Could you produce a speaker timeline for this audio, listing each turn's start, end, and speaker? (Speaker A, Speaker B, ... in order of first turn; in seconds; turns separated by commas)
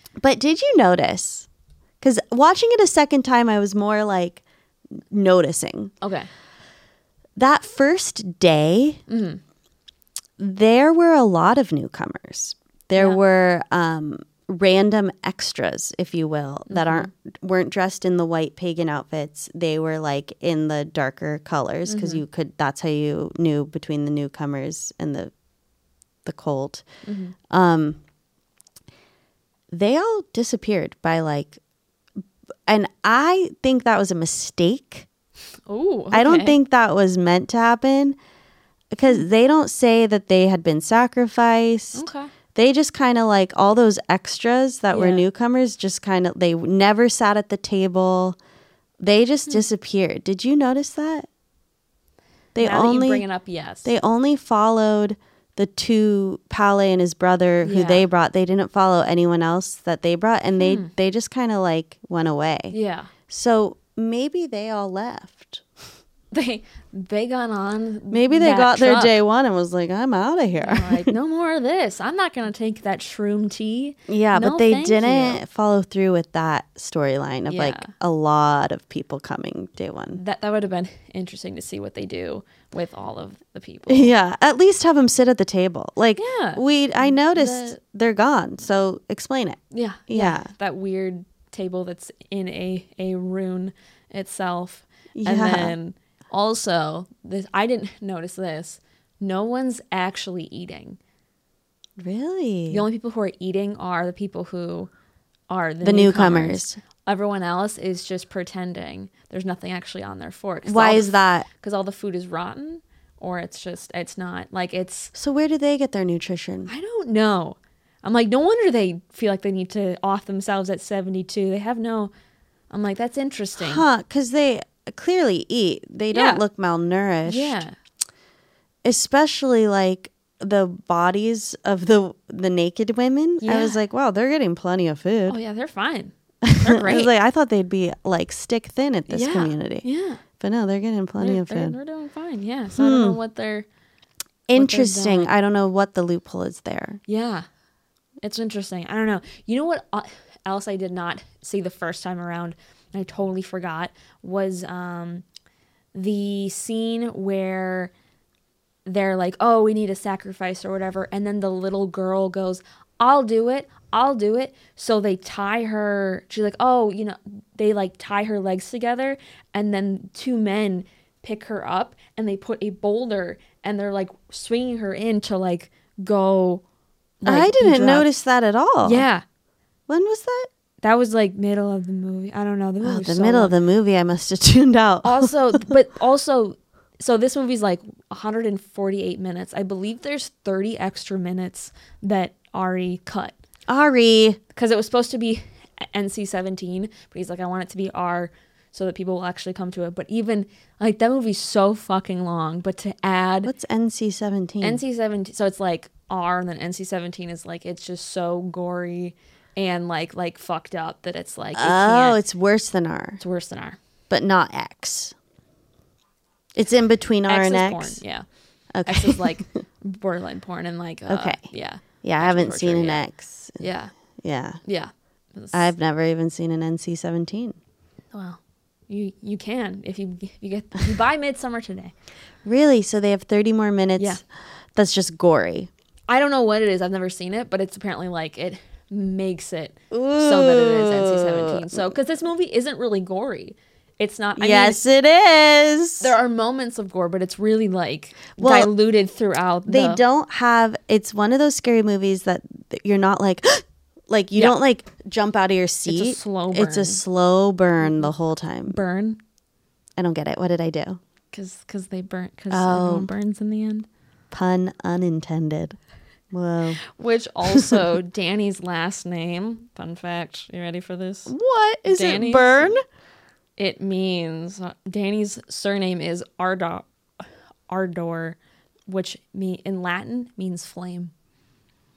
Speaker A: 0.2-1.5, Speaker A: 2.0-4.4, Speaker A: 5.1-5.9, Speaker B: 6.0-6.3, Speaker A: 7.3-9.0, Speaker B: 9.1-9.4, Speaker A: 10.4-25.3, Speaker B: 12.9-13.2, Speaker B: 16.7-17.1, Speaker B: 21.9-22.2, Speaker A: 26.2-26.8, Speaker B: 27.0-27.3, Speaker A: 27.5-28.0, Speaker A: 29.7-31.6, Speaker A: 32.7-35.1, Speaker B: 35.7-36.6, Speaker A: 36.1-38.2, Speaker A: 38.9-48.4, Speaker B: 41.9-42.3, Speaker B: 44.9-45.2, Speaker A: 49.0-51.3, Speaker A: 52.5-53.2, Speaker B: 52.6-53.9, Speaker A: 53.8-62.8, Speaker B: 57.6-58.0, Speaker B: 60.6-60.9, Speaker B: 62.7-63.1, Speaker A: 63.3-65.6, Speaker B: 66.3-69.2, Speaker A: 68.1-71.1, Speaker B: 70.6-75.4, Speaker A: 74.1-80.2, Speaker B: 77.5-77.9, Speaker B: 80.2-84.1, Speaker A: 83.9-90.5, Speaker B: 86.2-87.8, Speaker B: 89.7-101.0, Speaker A: 95.1-95.7, Speaker A: 102.0-102.8, Speaker B: 102.7-104.9, Speaker B: 105.5-115.1, Speaker A: 105.8-106.8, Speaker A: 110.6-111.5, Speaker A: 115.1-116.7, Speaker B: 116.7-122.1, Speaker B: 122.7-123.8, Speaker A: 123.6-127.6, Speaker B: 126.1-126.4, Speaker B: 127.2-127.7, Speaker A: 128.8-135.4, Speaker B: 133.4-133.8, Speaker B: 135.3-137.1, Speaker A: 136.4-139.8, Speaker B: 139.1-140.2, Speaker A: 140.4-141.8, Speaker B: 141.2-143.7, Speaker A: 142.8-143.2, Speaker A: 144.5-147.0, Speaker B: 144.5-145.3, Speaker B: 147.1-147.4, Speaker B: 148.2-155.2, Speaker B: 155.9-157.9, Speaker B: 158.8-176.6, Speaker B: 177.2-178.1, Speaker A: 177.2-179.1, Speaker B: 178.8-179.2, Speaker A: 179.9-180.5, Speaker B: 180.8-183.5, Speaker A: 182.8-185.3, Speaker B: 185.0-193.3, Speaker A: 193.7-194.4, Speaker B: 194.5-203.5, Speaker A: 203.4-204.8, Speaker B: 204.6-212.2, Speaker A: 211.5-213.2, Speaker B: 213.2-213.8, Speaker A: 214.1-215.1, Speaker A: 216.5-218.0, Speaker B: 217.3-218.2, Speaker A: 218.7-219.5, Speaker B: 218.8-223.1, Speaker A: 221.1-223.6, Speaker B: 223.6-223.9, Speaker A: 224.2-224.6, Speaker B: 224.6-225.7, Speaker A: 225.5-227.6, Speaker B: 228.1-231.9, Speaker A: 232.4-234.2, Speaker A: 234.7-235.7, Speaker B: 236.1-244.8, Speaker A: 239.9-241.9, Speaker A: 244.4-246.1, Speaker B: 246.0-250.0, Speaker A: 248.4-248.7, Speaker A: 249.7-258.8, Speaker B: 255.9-257.0, Speaker B: 258.7-259.2, Speaker A: 260.0-261.0, Speaker B: 261.3-263.9, Speaker A: 262.5-263.1, Speaker A: 264.3-265.8, Speaker A: 266.3-266.8, Speaker B: 266.9-271.3, Speaker A: 271.3-272.8, Speaker B: 271.9-272.7, Speaker B: 273.6-276.9, Speaker B: 277.7-281.1